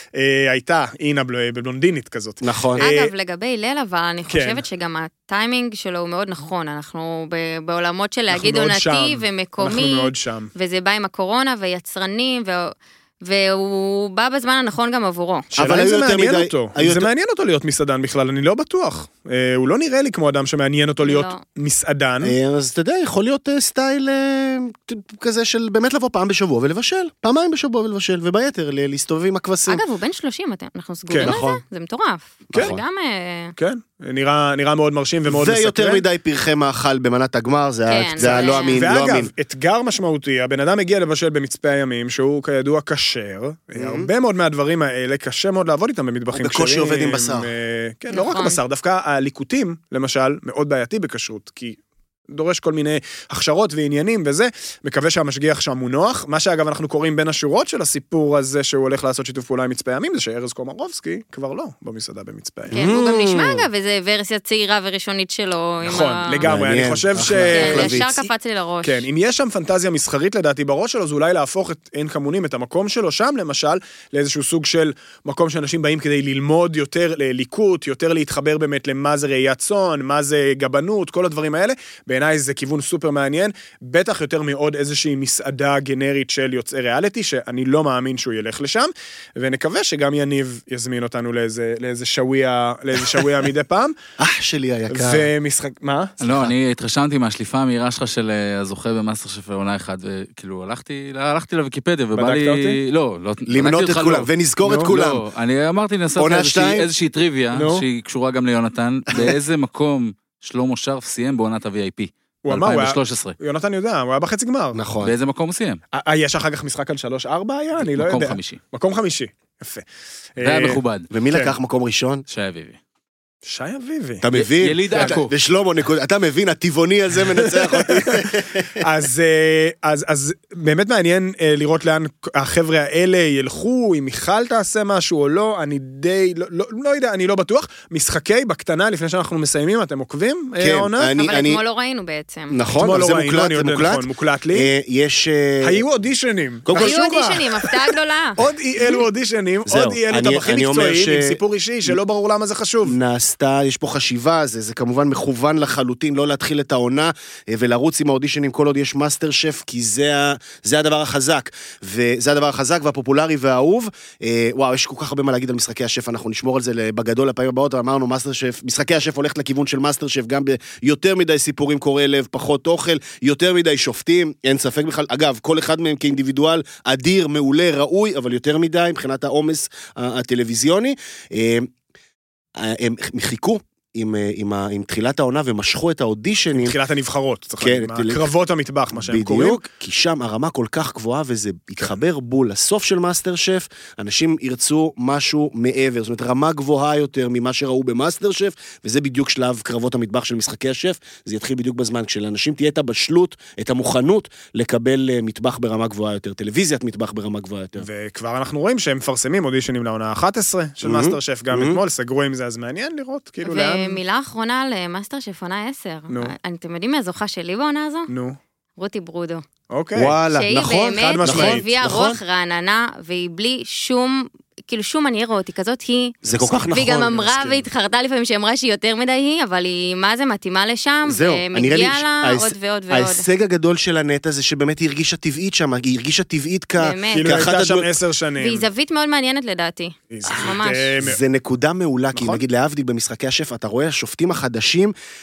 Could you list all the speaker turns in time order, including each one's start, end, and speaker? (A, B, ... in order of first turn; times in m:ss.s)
0:00.1-0:03.1 A
0:02.4-0:02.8 B
0:02.8-0:15.5 C
0:04.3-0:04.6 A
0:08.3-0:10.5 A
0:15.5-0:22.3 A
0:15.6-0:17.1 B
0:21.0-0:21.4 C
0:22.2-0:29.8 B
0:29.7-0:33.5 C
0:31.1-0:31.4 A
0:31.2-0:31.6 B
0:32.5-0:32.8 B
0:33.6-0:36.0 A
0:35.2-0:39.3 B
0:37.9-0:38.8 C
0:38.2-1:02.9 A
0:43.7-0:44.1 B
0:46.3-0:47.5 B
0:48.1-0:48.6 C
1:02.7-1:03.7 B
1:02.7-1:06.5 C
1:05.8-1:08.3 A
1:06.4-1:08.1 B
1:07.5-1:09.0 C
1:08.8-1:33.9 A
1:34.2-1:35.3 B
1:34.9-1:36.1 A
1:36.2-1:44.3 D
1:42.2-1:42.8 A
1:43.5-1:45.2 B
1:44.6-1:44.9 A
1:44.9-1:53.3 D
1:46.2-1:46.9 B
1:47.5-1:47.8 A
1:52.4-1:54.8 A
1:54.7-1:55.1 B
1:55.0-1:55.8 D
1:55.9-1:59.8 A
1:57.9-1:58.6 D
2:00.4-2:01.5 A
2:00.4-2:01.1 D
2:01.1-2:02.2 B
2:02.3-2:02.8 D
2:03.4-2:04.2 A
2:04.2-2:08.8 B
2:04.3-2:05.3 D
2:04.9-2:05.2 A
2:07.4-2:21.1 A
2:20.6-2:21.6 B
2:21.2-2:22.6 C
2:22.5-2:25.8 B
2:22.8-2:24.7 A
2:25.6-2:33.0 A
2:26.6-2:27.0 B
2:26.7-2:28.4 C
2:29.6-2:31.4 B
2:32.8-3:01.7 B
3:02.6-3:06.7 B
3:06.5-3:09.6 A
3:07.6-3:08.2 B
3:08.9-3:27.8 B
3:27.8-3:34.0 A
3:30.8-3:31.8 B
3:33.4-3:38.1 C
3:36.1-3:36.3 A
3:38.1-3:38.4 A
3:38.8-3:39.4 C
3:39.7-3:41.7 A
3:39.9-3:42.2 B
3:40.3-3:53.2 C
3:46.2-3:47.6 A
3:46.3-3:47.3 B
3:51.1-3:57.9 B
3:56.8-3:57.4 C
3:57.1-3:58.7 A
3:58.4-4:00.9 C
4:00.1-4:01.2 A
4:01.0-4:04.9 B
4:02.1-4:02.4 A